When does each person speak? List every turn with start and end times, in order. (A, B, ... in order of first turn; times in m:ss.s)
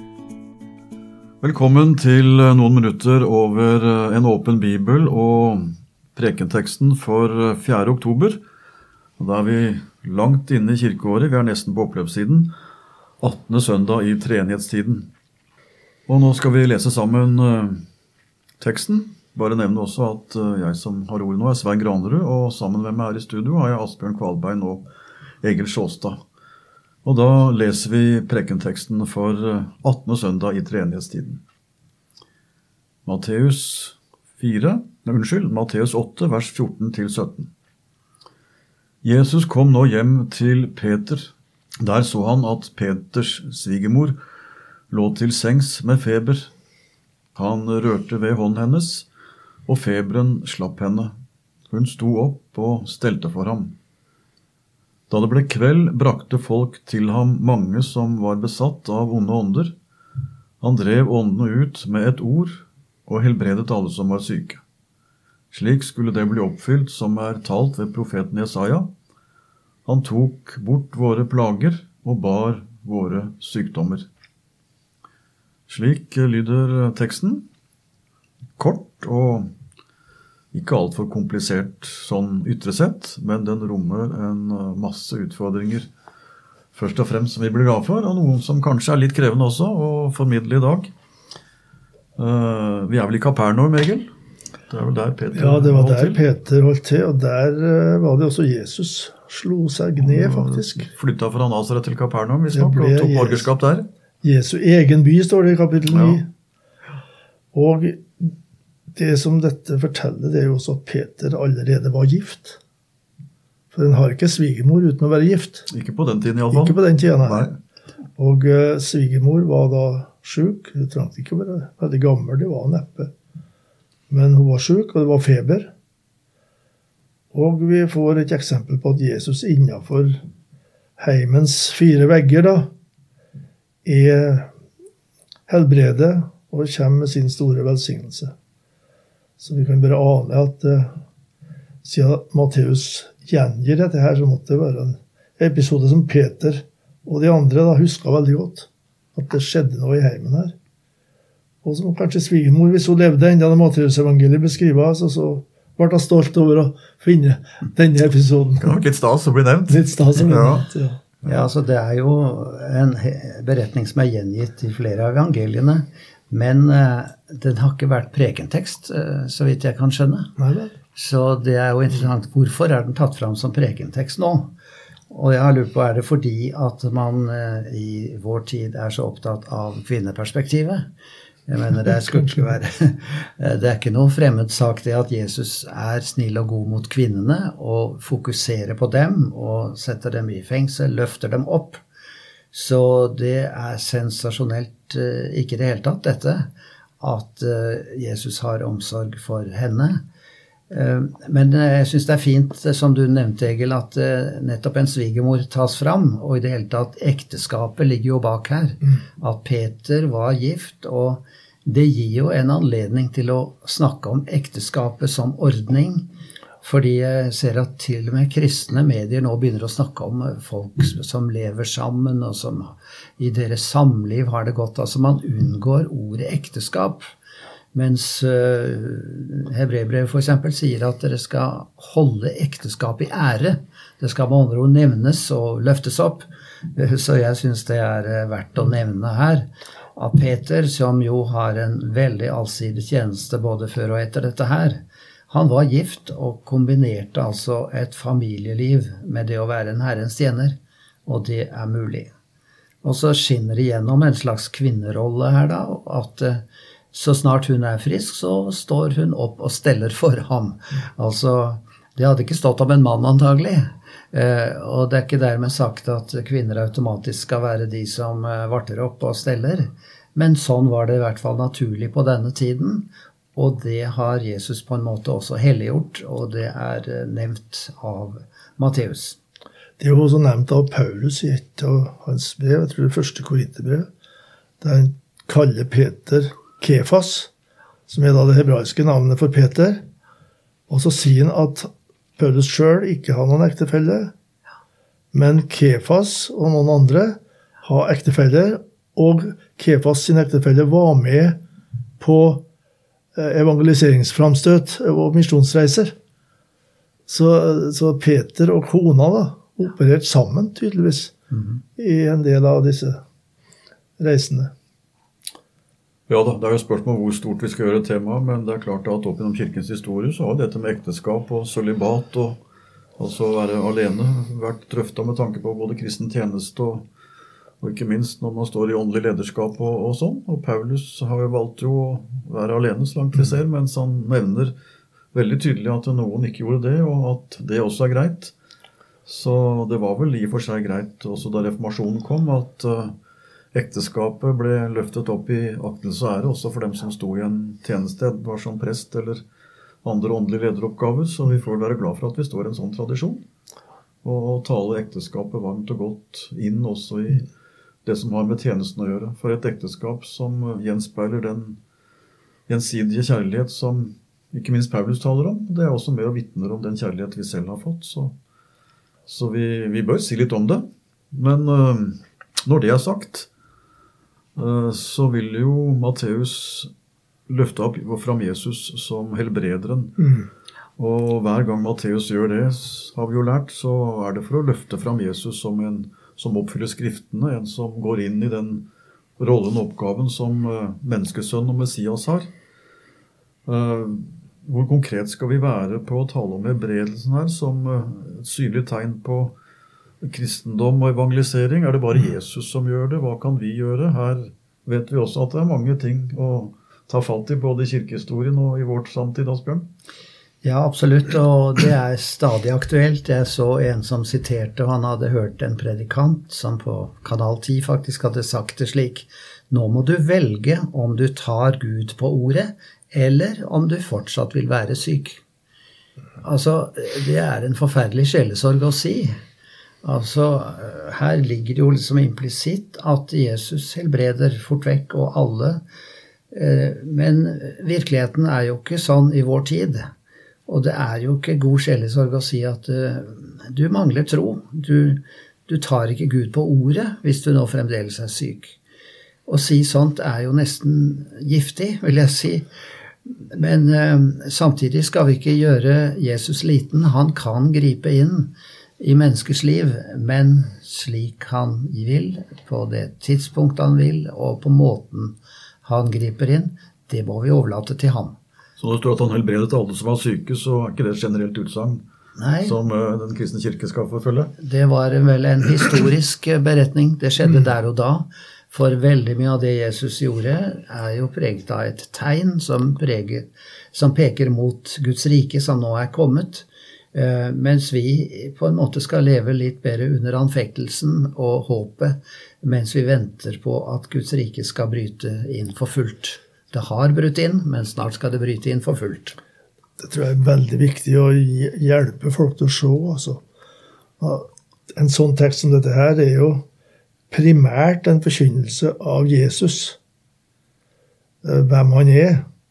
0:01.4-0:08.4 A
0:09.2-0:12.5 A
0:13.2-0:15.1 A
0:16.1-0:17.8 A
0:18.6-0:24.8 A
0:25.4-0:26.2 A
0:27.0-0:31.4 A
0:33.0-0:37.5 A
0:39.0-0:44.2 A
0:44.9-0:46.5 A
0:47.3-0:49.1 A
0:49.6-0:51.1 A
0:51.7-0:53.7 A
0:55.1-0:59.7 A
1:00.6-1:04.6 A
1:05.5-1:08.9 A
1:09.8-1:14.1 A
1:15.7-1:17.4 A
1:18.6-1:19.5 A
1:20.5-1:25.9 A
1:26.7-1:30.9 A
1:32.2-1:34.1 A
1:34.7-1:36.2 A
1:35.3-1:40.9 B
1:40.0-1:43.9 A
1:42.5-1:43.5 B
1:44.2-1:46.3 B
1:45.9-1:46.2 A
1:47.5-1:48.3 B
1:48.9-1:52.6 B
1:53.7-1:55.7 B
1:55.7-1:57.6 A
1:56.5-1:57.5 B
1:58.2-2:03.1 B
2:04.1-2:05.7 B
2:07.3-2:10.2 B
2:11.0-2:12.7 B
2:13.8-2:14.5 B
2:15.5-2:18.3 B
2:19.4-2:21.0 B
2:21.8-2:30.5 B
2:31.6-2:38.8 B
2:38.6-2:40.6 A
2:39.7-2:41.0 B
2:41.2-2:50.3 C
2:50.4-2:50.7 B
2:50.9-2:54.5 C
2:55.1-3:00.9 C
3:01.5-3:11.8 C
3:12.5-3:16.5 C
3:17.0-3:20.0 C
3:20.7-3:36.0 C
3:36.6-3:47.1 C
3:47.7-4:12.1 C
4:12.8-4:39.2 C
4:39.8-4:43.9 B
4:44.6-4:47.3 B
4:47.9-4:49.8 B
4:50.7-4:54.1 B
4:55.1-5:01.4 B
5:02.0-5:02.4 B
5:03.1-5:05.9 B
5:07.1-5:11.1 B
5:11.8-5:13.0 B
5:14.0-5:14.5 B
5:16.1-5:22.4 A
5:23.0-5:26.8 A
5:27.6-5:34.5 A
5:35.1-5:38.3 A
5:39.0-5:42.9 A
5:43.5-5:49.2 A
5:49.8-5:53.2 A
5:54.0-5:57.3 A
5:57.8-6:01.6 A
6:02.5-6:08.1 A
6:09.0-6:13.3 A
6:14.4-6:16.7 A
6:17.3-6:20.2 A
6:20.8-6:28.6 A
6:29.2-6:32.3 A
6:33.4-6:39.3 A
6:40.0-6:49.7 A
6:50.4-7:05.2 C
7:06.2-7:09.2 C
7:09.8-7:15.6 C
7:16.3-7:19.9 C
7:20.5-7:28.6 C
7:29.3-7:32.4 C
7:33.2-7:48.2 C
7:48.6-7:51.8 A
7:52.2-7:52.6 C
7:52.4-7:54.3 A
7:54.4-8:19.2 C
8:19.8-8:23.2 B
8:24.0-8:26.4 B
8:27.1-8:29.8 B
8:31.2-8:32.2 B